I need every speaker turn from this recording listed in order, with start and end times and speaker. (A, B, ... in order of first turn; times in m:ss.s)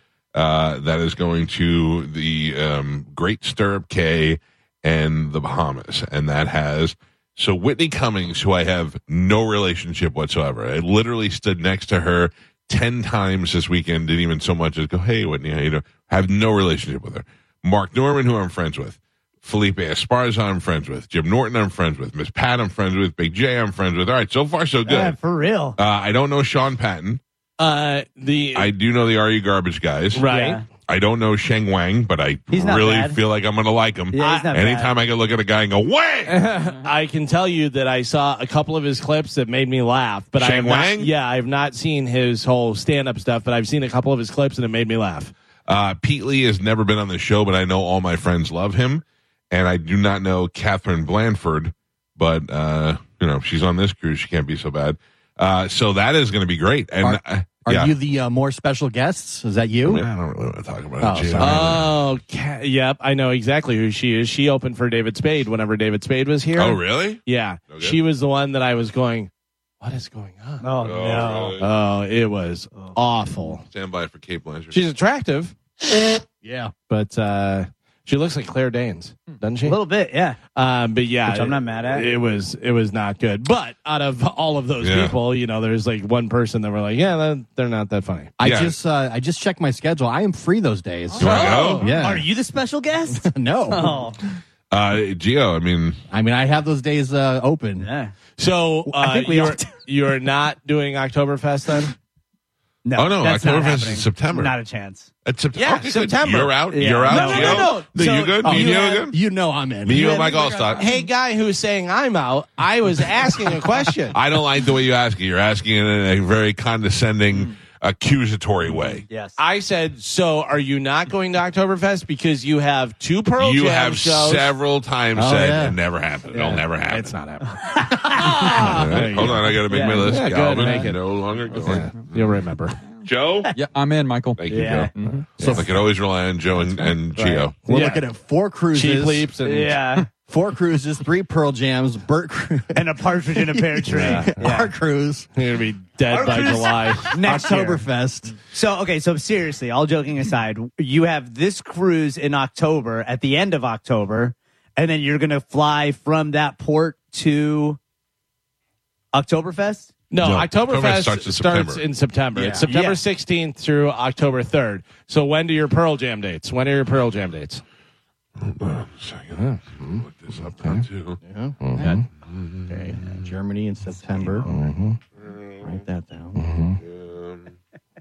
0:00.3-0:25.2 A
0:24.8-0:25.8 B
0:25.8-0:27.2 A
0:27.6-0:28.7 C
0:28.5-0:30.2 A
0:30.1-0:30.7 C
0:30.2-0:30.6 B
0:30.8-0:36.5 A
0:32.5-0:33.2 B
0:34.1-0:34.9 B
0:36.3-0:45.3 C
0:40.4-0:41.1 A
0:45.6-0:57.9 A
0:57.0-1:00.0 D
0:59.8-1:02.0 A
1:01.0-1:01.8 D
1:01.4-1:09.3 C
1:06.6-1:08.0 A
1:09.8-1:10.6 C
1:10.6-1:11.6 B
1:10.8-1:11.7 A
1:11.6-1:13.6 C
1:12.7-1:13.0 B
1:13.6-1:14.8 A
1:14.7-1:15.5 C
1:16.4-1:16.7 D
1:16.9-1:19.8 C
1:19.6-1:20.4 B
1:20.5-1:28.3 C
1:21.2-1:22.1 B
1:24.8-1:25.2 A
1:28.4-1:32.3 D
1:28.4-1:28.8 A
1:31.2-1:31.9 A
1:31.2-1:31.8 C
1:31.3-1:34.2 B
1:33.1-1:34.0 D
1:34.7-1:36.0 A
1:36.1-1:37.9 D
1:37.8-1:38.1 B
1:38.4-1:41.9 C
1:38.8-1:39.7 B
1:42.8-1:45.1 B
1:43.0-1:44.5 A
1:45.2-1:49.2 A
1:45.5-1:47.9 C
1:46.7-1:49.1 B
1:48.4-1:50.2 D
1:49.8-1:50.9 A
1:49.9-1:50.8 B
1:50.0-1:54.2 C
1:54.1-1:59.0 A
1:59.1-1:59.4 B
1:59.4-2:04.5 C
2:03.4-2:07.2 A
2:05.1-2:05.8 D
2:06.3-2:11.0 C
2:07.5-2:08.5 B
2:08.4-2:12.2 A
2:09.7-2:10.2 B
2:11.6-2:12.8 C
2:12.8-2:15.3 E
2:13.0-2:13.5 A
2:14.4-2:14.9 A
2:14.5-2:14.9 B
2:15.4-2:15.7 D
2:15.4-2:15.6 C
2:15.4-2:17.6 A
2:17.2-2:18.1 C
2:17.6-2:19.3 D
2:18.7-2:19.8 C
2:19.4-2:20.1 B
2:20.3-2:25.3 D
2:22.7-2:24.7 B
2:23.9-2:24.4 C
2:25.3-2:27.2 C
2:26.1-2:27.8 B
2:27.2-2:28.4 D
2:28.5-2:37.8 B
2:39.1-2:39.9 B
2:40.1-2:47.6 C
2:40.2-2:41.9 A
2:42.3-2:42.7 D
2:42.6-2:43.0 B
2:48.4-2:51.2 A
2:49.3-2:50.0 C
2:51.2-2:52.0 D
2:51.6-2:52.0 C
2:52.2-2:53.3 A
2:52.7-2:54.7 D
2:54.4-2:55.0 C
2:55.2-2:55.8 A
2:55.6-2:56.8 D
2:56.3-2:56.8 C
2:56.8-2:57.5 A